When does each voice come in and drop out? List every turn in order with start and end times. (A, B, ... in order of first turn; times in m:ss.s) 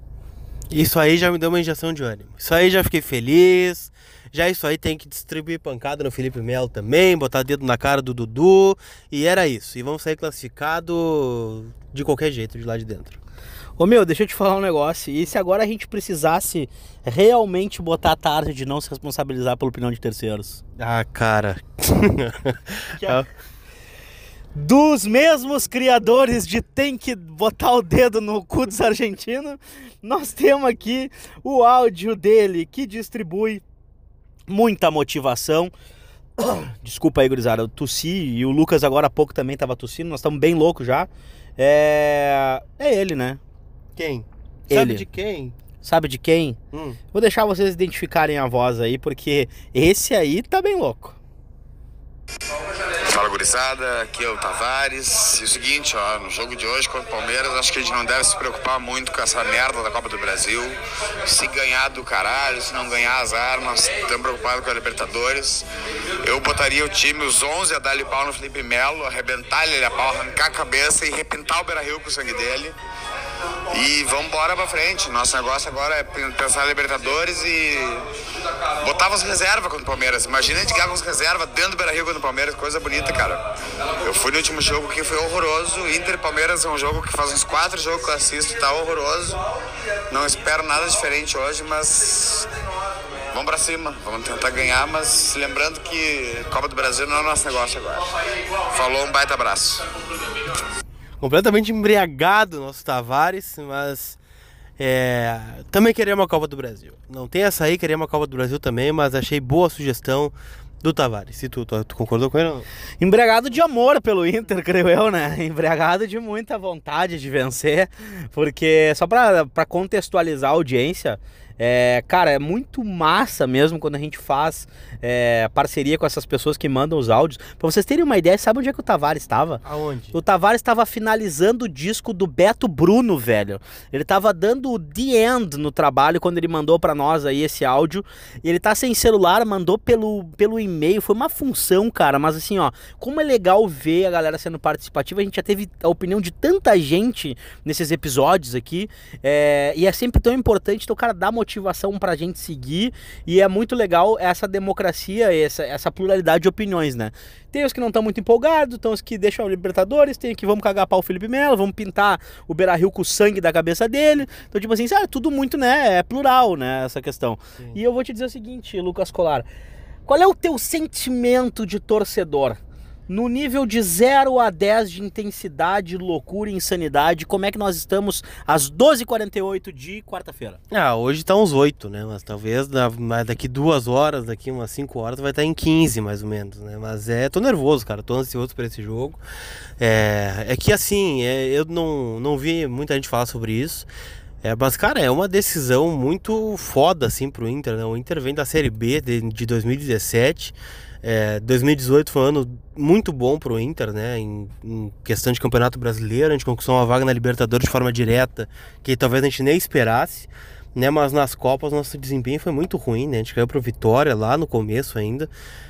0:00.7-0:13.2 A
0:13.8-0:20.6 B
0:20.8-0:23.3 A
0:23.0-0:23.2 B
0:24.5-0:33.6 B
0:34.5-0:35.7 B
0:36.4-0:43.4 B
0:44.0-0:45.5 A
0:44.7-0:45.0 B
0:45.8-0:46.6 B
0:46.7-0:47.0 A
0:47.1-0:51.2 B
0:53.0-1:05.6 C
1:06.2-1:12.8 C
1:13.7-1:18.1 C
1:18.8-1:23.4 C
1:24.0-1:29.4 C
1:30.1-1:32.5 C
1:33.3-1:38.1 C
1:38.7-1:39.9 C
1:41.2-1:44.2 A
1:44.8-1:52.6 A
1:53.0-2:49.5 B
2:09.6-2:10.2 A
2:50.0-3:00.6 B
3:00.7-3:09.2 A
3:09.8-3:13.9 A
3:14.4-3:35.3 A